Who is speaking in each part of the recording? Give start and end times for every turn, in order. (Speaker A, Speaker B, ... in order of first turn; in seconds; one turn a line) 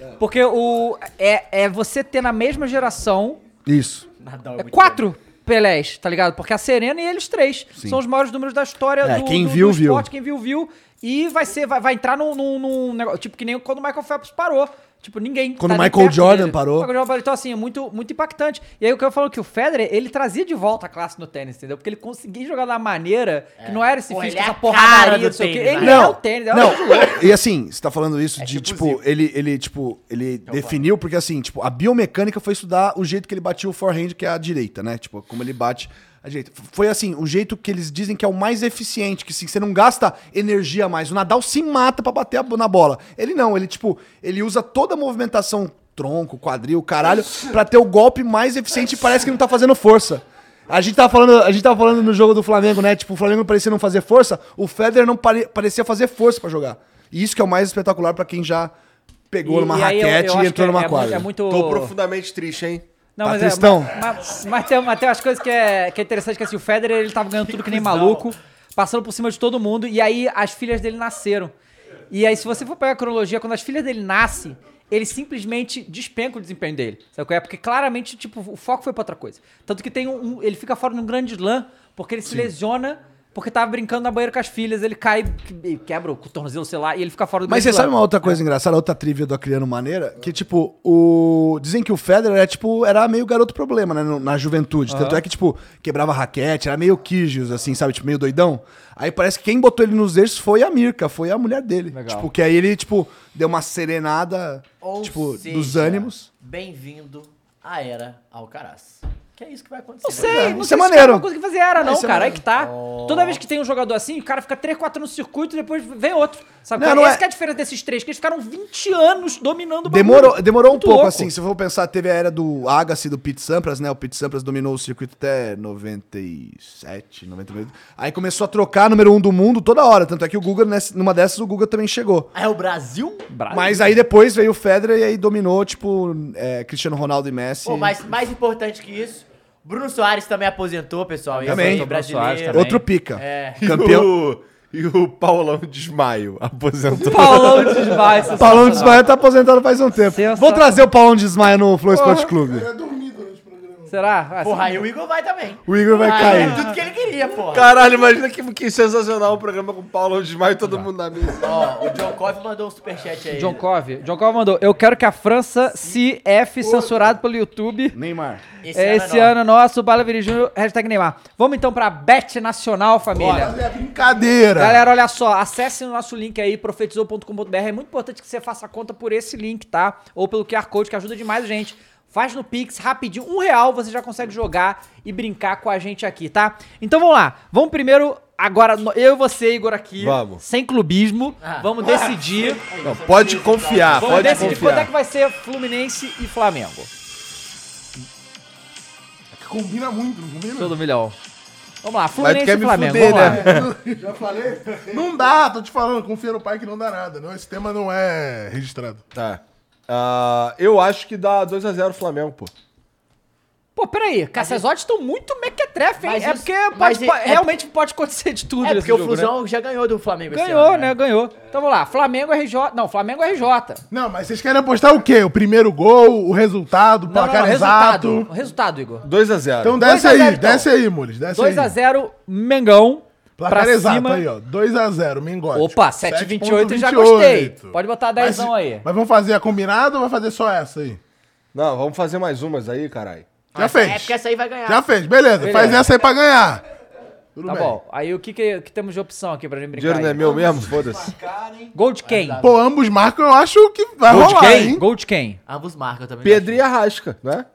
Speaker A: 0.2-3.4
Speaker B: 3.6-4.1
Speaker C: 4.2-5.0
Speaker A: 4.6-27.2
Speaker B: 7.8-8.0
Speaker B: 9.0-10.1
Speaker B: 15.6-16.9
Speaker C: 23.6-26.2
Speaker B: 25.8-58.7
Speaker C: 28.4-29.0
Speaker C: 30.5-30.9
Speaker B: 59.3-61.3
Speaker A: 59.4-61.9
Speaker D: 61.5-62.9
Speaker A: 63.2-71.5
Speaker B: 63.2-63.9
Speaker C: 67.4-68.3
Speaker A: 72.1-88.4
Speaker B: 82.3-82.5
Speaker B: 87.5-106.3
Speaker A: 94.9-95.2
Speaker A: 101.9-102.3
Speaker C: 104.8-110.6
Speaker A: 110.0-121.3
Speaker B: 110.2-112.4
Speaker C: 112.5-113.4
Speaker B: 116.8-117.2
Speaker B: 119.8-132.3
Speaker C: 132.3-133.3
Speaker A: 133.3-133.8
Speaker B: 133.5-138.0
Speaker C: 137.7-143.6
Speaker A: 141.3-142.8
Speaker B: 141.5-141.9
Speaker B: 142.5-144.1
Speaker D: 143.6-148.1
Speaker A: 146.9-149.0
Speaker B: 148.3-152.7
Speaker A: 150.1-150.7
Speaker A: 151.9-152.3
Speaker E: 152.3-153.9
Speaker A: 153.9-154.8
Speaker C: 154.4-157.7
Speaker B: 155.7-156.7
Speaker D: 157.5-161.7
Speaker C: 161.4-163.6
Speaker A: 163.3-168.0
Speaker E: 166.6-167.0
Speaker B: 167.9-168.4
Speaker C: 168.6-169.3
Speaker A: 168.7-173.6
Speaker E: 173.1-174.9
Speaker A: 174.6-192.6
Speaker D: 190.0-190.4
Speaker C: 191.4-194.9
Speaker D: 192.8-194.9
Speaker A: 194.0-196.9
Speaker E: 199.3-200.8
Speaker A: 200.6-201.2
Speaker A: 201.8-203.5
Speaker D: 202.2-203.7
Speaker E: 203.0-204.2
Speaker B: 204.0-205.0
Speaker E: 204.8-209.0
Speaker D: 209.1-212.5
Speaker A: 213.8-219.3
Speaker C: 214.4-214.6
Speaker C: 216.0-217.6
Speaker C: 218.6-220.9
Speaker A: 220.3-223.8
Speaker E: 223.9-228.3
Speaker A: 227.1-229.1
Speaker D: 229.0-229.8
Speaker E: 229.6-231.8
Speaker A: 229.8-230.7
Speaker A: 231.3-234.2
Speaker E: 233.4-241.0
Speaker A: 235.5-238.9
Speaker D: 241.5-243.3
Speaker C: 243.6-245.0
Speaker E: 243.6-246.6
Speaker A: 245.4-245.8
Speaker E: 247.4-247.8
Speaker A: 247.5-250.4
Speaker D: 249.8-251.1
Speaker B: 250.2-251.7
Speaker A: 251.7-252.4
Speaker C: 252.1-252.6
Speaker E: 252.4-254.8
Speaker D: 254.1-254.8
Speaker A: 254.5-255.4
Speaker C: 255.5-256.6
Speaker D: 256.2-257.5